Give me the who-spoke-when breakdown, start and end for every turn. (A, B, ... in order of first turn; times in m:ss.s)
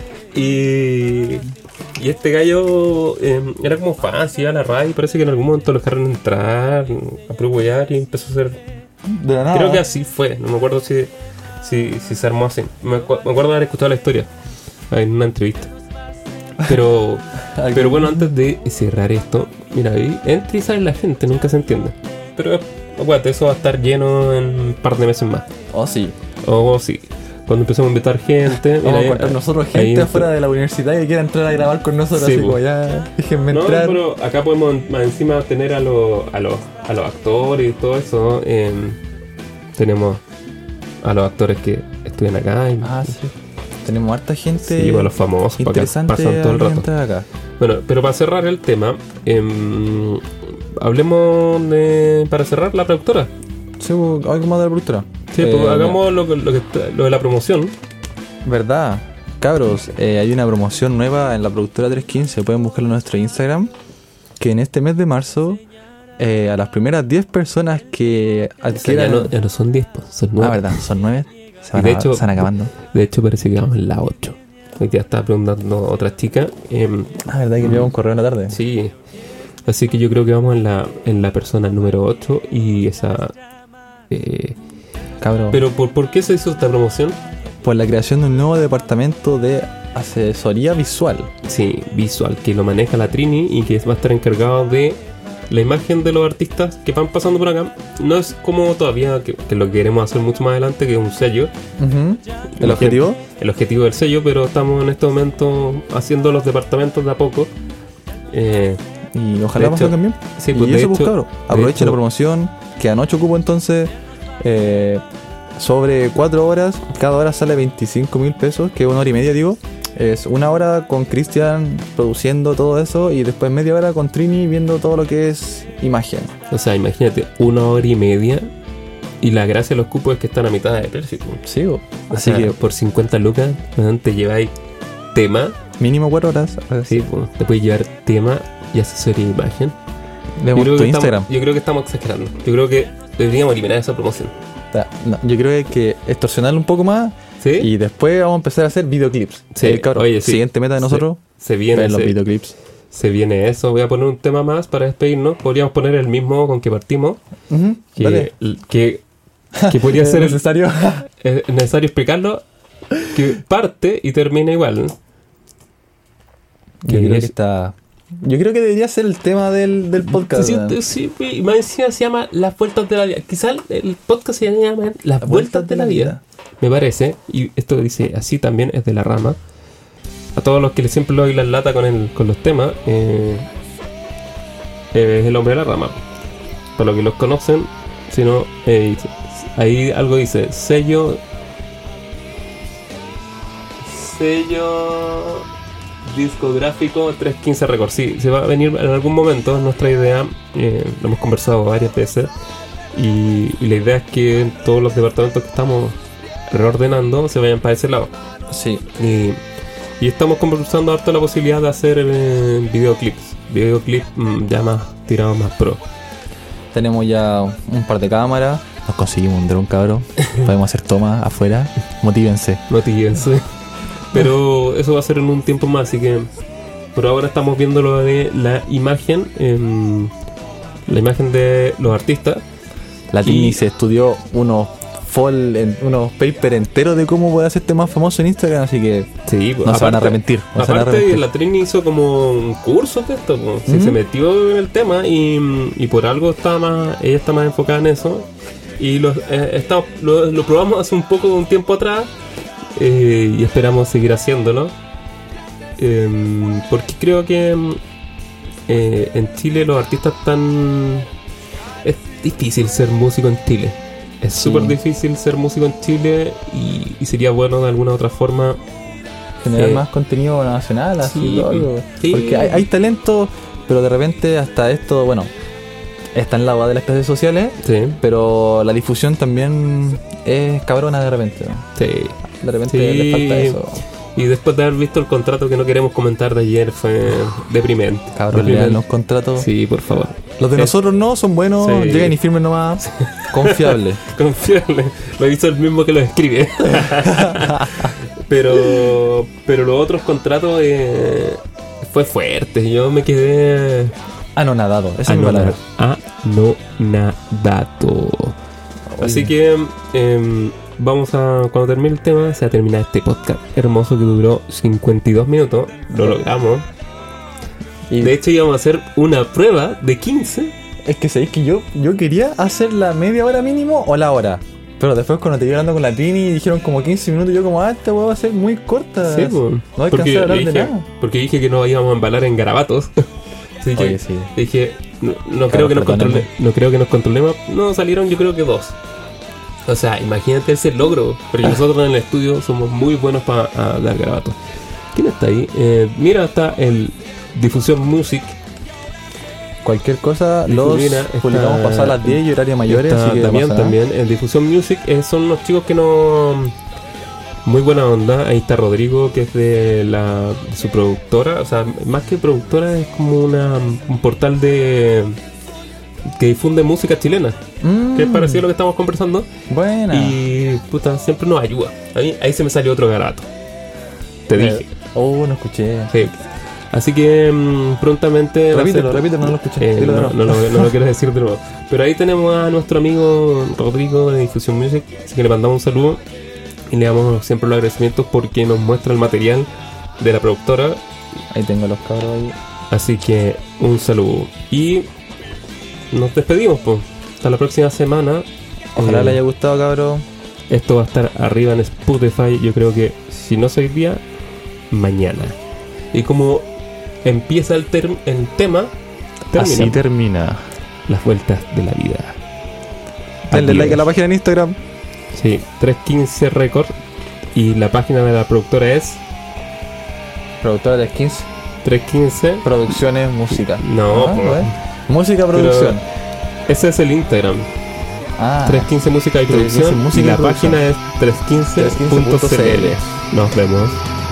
0:00.3-0:08.6 A
0:09.1-0:09.8 B
0:09.5-0:14.3 A
0:14.9-0:15.7 A
0:16.6-0:25.5 A
0:17.5-0:18.3 B
0:25.7-0:26.2 B
0:26.4-0:30.3 A
0:28.8-0:34.0 B
0:32.1-0:32.6 A
0:33.5-0:39.0 A
0:39.7-0:40.2 A
0:41.0-0:43.1 A
0:42.8-0:47.3 B
0:44.6-0:46.9 A
0:47.6-0:53.3 A
0:53.8-0:56.0 B
0:55.3-0:57.7 A
0:58.4-1:03.7 B
1:04.4-1:05.6 B
1:06.2-1:09.3 B
1:08.8-1:10.8 A
1:10.4-1:12.7 B
1:11.7-1:17.9 A
1:17.2-1:18.6 B
1:18.5-1:18.9 A
1:19.6-1:23.4 A
1:24.1-1:24.6 A
1:25.2-1:25.6 B
1:25.5-1:27.2 A
1:27.6-1:31.3 B
1:31.4-1:35.0 A
1:35.5-1:41.5 A
1:41.8-1:43.2 B
1:42.5-1:47.5 A
1:48.3-1:48.8 A
1:49.1-1:55.0 B
1:49.6-1:52.0 A
1:55.6-2:06.3 B
2:06.5-2:08.5 A
2:09.2-2:11.4 A
2:11.4-2:12.6 B
2:12.1-2:14.5 A
2:15.1-2:15.6 A
2:15.8-2:17.0 B
2:16.9-2:19.8 A
2:20.4-2:21.3 B
2:20.5-2:24.3 A
2:24.7-2:31.2 B
2:27.4-2:27.7 A
2:29.5-2:32.2 A
2:31.7-2:32.6 B
2:32.9-2:37.2 A
2:37.5-2:38.3 B
2:38.0-2:39.0 A
2:39.5-2:41.1 B
2:39.6-2:40.4 A
2:41.2-2:42.4 A
2:43.0-2:45.0 A
2:46.8-2:50.8 B
2:46.8-2:47.3 A
2:50.1-2:59.4 A
2:55.2-2:56.2 B
3:00.4-3:03.5 A
3:04.9-3:06.0 A
3:06.8-3:11.2 A
3:13.8-3:15.4 A
3:16.0-3:22.3 A
3:22.9-3:26.0 A
3:26.5-3:28.1 A
3:28.5-3:28.8 B
3:29.0-3:29.4 A
3:30.0-3:35.8 A
3:36.7-3:42.6 B
3:42.7-3:43.5 A
3:44.1-3:46.3 A
3:46.9-3:50.1 A
3:50.9-3:52.4 A
3:53.1-3:59.1 B
3:53.2-3:53.6 A
3:59.2-4:12.1 A
3:59.6-4:01.2 B
4:03.6-4:04.0 B
4:12.7-4:14.7 A
4:15.8-4:17.8 A
4:18.7-4:21.1 A
4:21.8-4:28.6 A
4:24.4-4:24.8 B
4:29.4-4:35.3 B
4:29.5-4:29.8 A
4:31.0-4:32.7 A
4:36.1-4:41.7 B
4:37.6-4:38.0 A
4:41.8-4:43.6 A
4:42.3-4:43.8 B
4:44.1-4:48.8 A
4:48.1-4:49.5 B
4:49.4-4:50.7 A
4:50.4-4:54.0 B
4:51.6-4:52.2 A
4:52.8-5:03.9 A
4:57.0-4:57.9 B
5:04.3-5:05.6 B
5:05.0-5:08.4 A
5:08.9-5:09.3 B
5:09.0-5:16.7 A
5:17.9-5:18.2 B
5:18.0-5:20.5 A
5:20.8-5:30.8 B
5:29.0-5:33.1 A
5:33.6-5:38.8 A
5:33.8-5:34.3 B
5:35.5-5:36.3 B
5:39.6-5:44.4 A
5:44.9-5:48.4 A
5:49.6-5:53.8 B
5:50.5-5:56.6 A
5:57.4-6:05.2 A
6:06.1-6:07.4 A
6:07.6-6:08.4 B
6:07.9-6:09.3 A
6:09.5-6:10.2 B
6:09.9-6:13.3 A
6:14.3-6:14.7 A
6:14.3-6:15.9 B
6:15.9-6:26.0 A
6:18.5-6:20.7 B
6:26.7-6:30.8 A
6:31.3-6:32.4 B
6:32.7-6:34.9 A
6:35.9-6:39.2 A
6:38.8-6:40.0 B
6:40.5-6:44.0 A
6:44.7-6:45.4 A
6:45.9-6:46.5 A
6:47.0-6:48.7 A
6:49.3-6:49.8 A
6:49.3-6:50.5 B
6:50.9-6:52.2 A
6:53.3-6:53.8 A
6:53.3-6:54.6 B
6:55.1-6:56.7 A
6:57.3-6:59.0 A
7:00.4-7:01.3 B
7:01.6-7:02.5 A
7:02.4-7:05.8 B
7:03.6-7:04.5 A
7:05.3-7:05.8 A
7:06.5-7:07.5 A
7:08.2-7:08.7 B
7:08.4-7:13.8 A
7:09.3-7:10.6 B
7:11.6-7:12.8 B